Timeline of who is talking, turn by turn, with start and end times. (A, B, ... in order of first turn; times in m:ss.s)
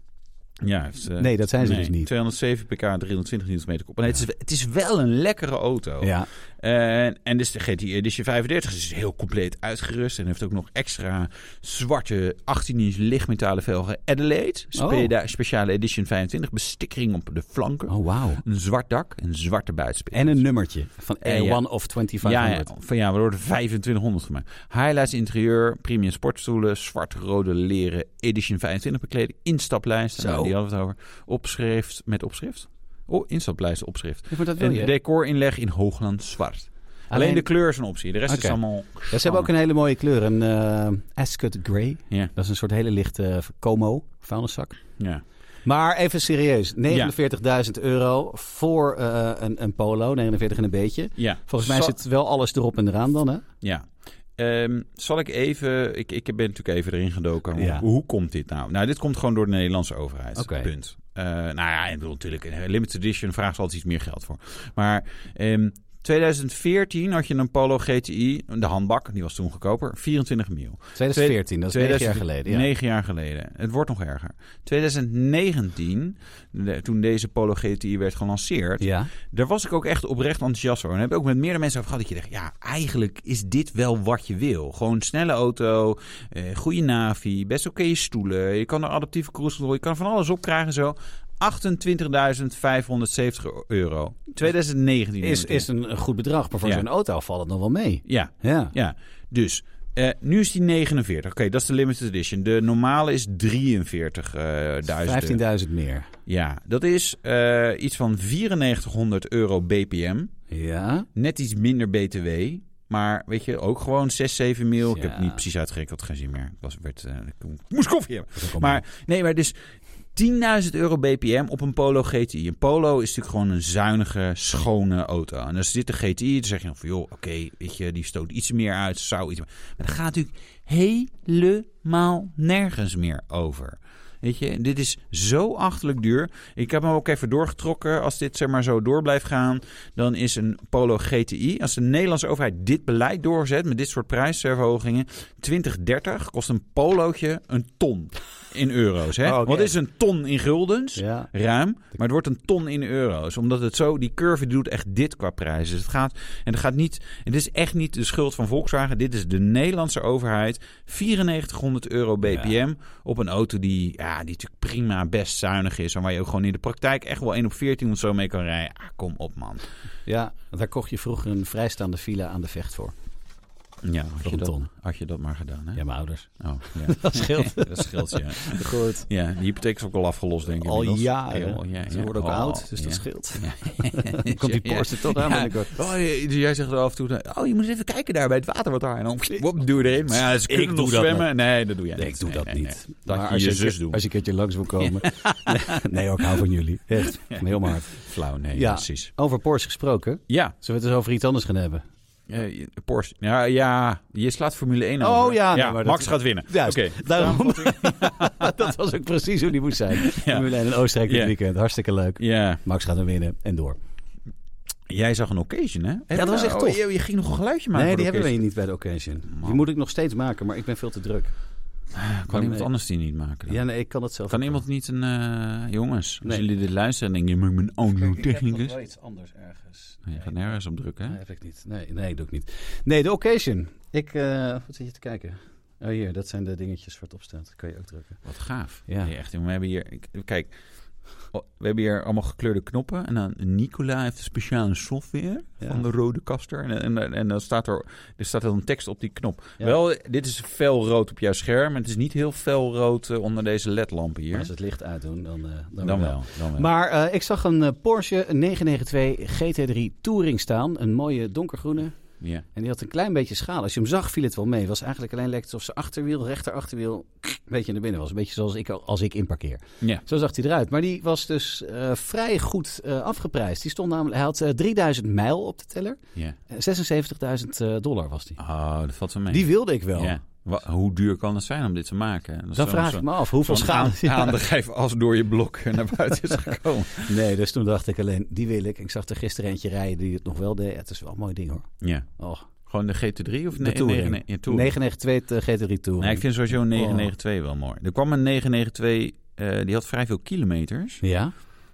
0:00.6-0:20.4 A
0:01.2-0:02.1 B
0:06.0-0:06.3 B
0:14.8-0:15.1 B
0:17.9-0:18.4 B
0:20.1-0:22.7 B
0:21.2-0:21.6 A
0:22.2-0:39.5 A
0:30.2-0:30.5 B
0:34.3-0:34.9 B
0:37.1-0:37.5 B
0:38.3-0:38.6 B
0:39.1-0:44.8 B
0:45.0-0:45.2 A
0:45.6-0:53.4 B
0:51.2-0:52.0 A
0:53.6-1:35.7 A
0:57.6-0:57.8 B
1:00.4-1:00.7 B
1:11.0-1:12.7 B
1:18.8-1:19.1 B
1:35.2-1:38.7 B
1:38.0-1:45.4 A
1:44.9-1:46.1 B
1:46.3-1:50.3 A
1:50.5-1:51.1 B
1:51.2-1:59.6 A
1:54.9-1:55.4 B
1:58.4-1:58.8 B
2:00.2-2:49.7 A
2:29.2-2:29.8 B
2:31.0-2:31.3 B
2:42.3-2:42.5 B
2:50.1-2:52.9 B
2:53.8-2:55.8 A
2:54.2-2:54.7 B
2:55.8-2:59.1 B
2:56.4-3:14.0 A
3:00.6-3:05.7 B
3:10.2-3:11.3 B
3:11.9-3:18.0 B
3:14.8-3:16.4 A
3:17.0-3:19.1 A
3:18.5-3:21.8 B
3:20.3-3:20.6 A
3:22.3-3:28.7 A
3:25.0-3:33.8 B
3:29.9-3:31.3 A
3:32.2-3:32.6 A
3:34.9-3:38.4 A
3:36.1-3:36.8 B
3:37.7-3:41.3 B
3:39.4-3:39.6 A
3:41.9-3:43.6 A
3:42.3-3:42.7 B
3:43.5-3:44.6 B
3:44.3-3:48.8 A
3:47.9-3:50.6 B
3:50.1-3:51.2 A
3:51.1-3:58.2 B
3:58.2-4:00.5 A
3:58.9-3:59.1 B
4:01.3-4:14.5 A
4:14.3-4:22.0 B
4:15.8-4:16.7 A
4:22.5-4:38.4 B
4:38.4-4:47.1 A
4:39.3-4:40.2 B
4:42.5-4:44.4 B
4:47.0-4:52.5 B
4:51.8-4:52.1 A
4:52.6-4:54.8 A
4:53.6-4:57.1 B
4:56.0-5:01.0 A
5:01.0-5:01.3 B